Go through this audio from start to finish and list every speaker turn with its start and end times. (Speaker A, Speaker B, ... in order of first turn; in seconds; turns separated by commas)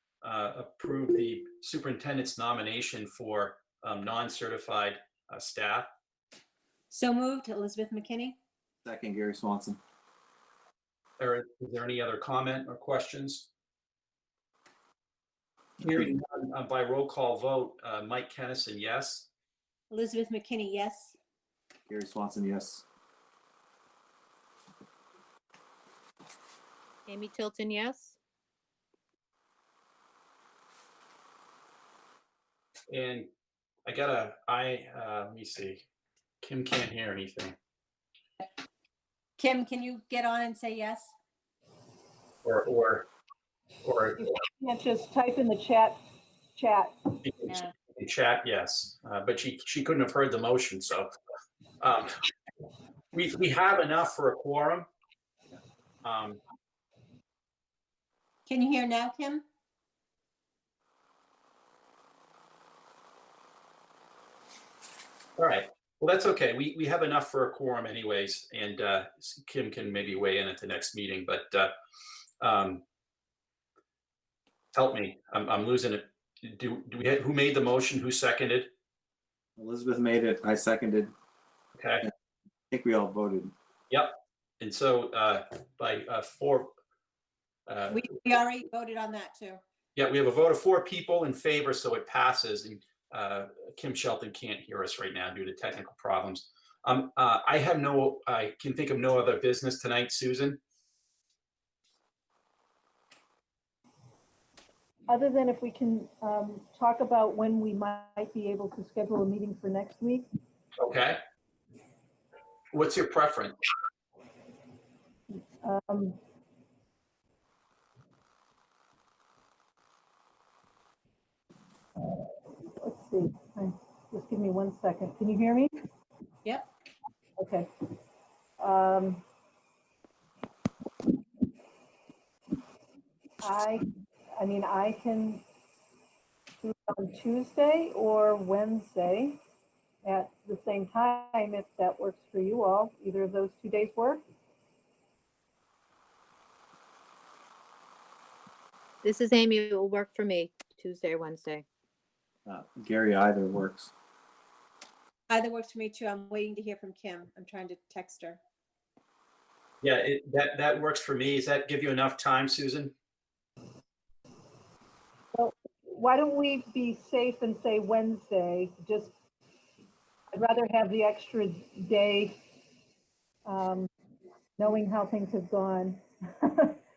Speaker A: 0.2-5.9, Speaker B: 6.9-8.4, Speaker C: 8.8-9.8, Speaker A: 11.2-13.5, Speaker A: 15.8-19.3, Speaker B: 19.9-21.2, Speaker C: 21.9-22.9, Speaker D: 27.1-28.2, Speaker A: 32.9-33.3, Speaker A: 33.9-35.8, Speaker A: 36.4-37.6, Speaker B: 39.4-41.1, Speaker A: 42.4-43.1, Speaker A: 43.8-44.2, Speaker E: 44.2-46.0, Speaker E: 46.6-46.9, Speaker A: 47.2-51.1, Speaker A: 51.8-52.1, Speaker A: 53.1-54.9, Speaker A: 56.0-56.4, Speaker B: 58.5-59.4, Speaker A: 65.4-71.7, Speaker A: 72.4-72.8, Speaker A: 74.7-78.7, Speaker C: 79.6-81.1, Speaker A: 81.8-82.1, Speaker C: 82.7-83.5, Speaker A: 83.9-86.7, Speaker A: 87.7-88.1, Speaker B: 87.9-89.6, Speaker A: 90.0-100.6, Speaker E: 105.1-110.3, Speaker A: 110.8-111.2, Speaker A: 112.7-113.5, Speaker E: 115.6-116.2, Speaker E: 122.8-125.7, Speaker E: 127.4-127.7, Speaker E: 128.6-129.2, Speaker E: 133.4-135.4, Speaker E: 136.6-139.4, Speaker E: 140.0-144.2, Speaker D: 149.0-151.7, Speaker C: 152.5-153.9, Speaker B: 155.3-158.4, Speaker A: 159.8-162.9, Speaker E: 165.3-169.1, Speaker E: 170.3-172.4, Speaker E: 173.4-173.9, Speaker E: 174.6-176.8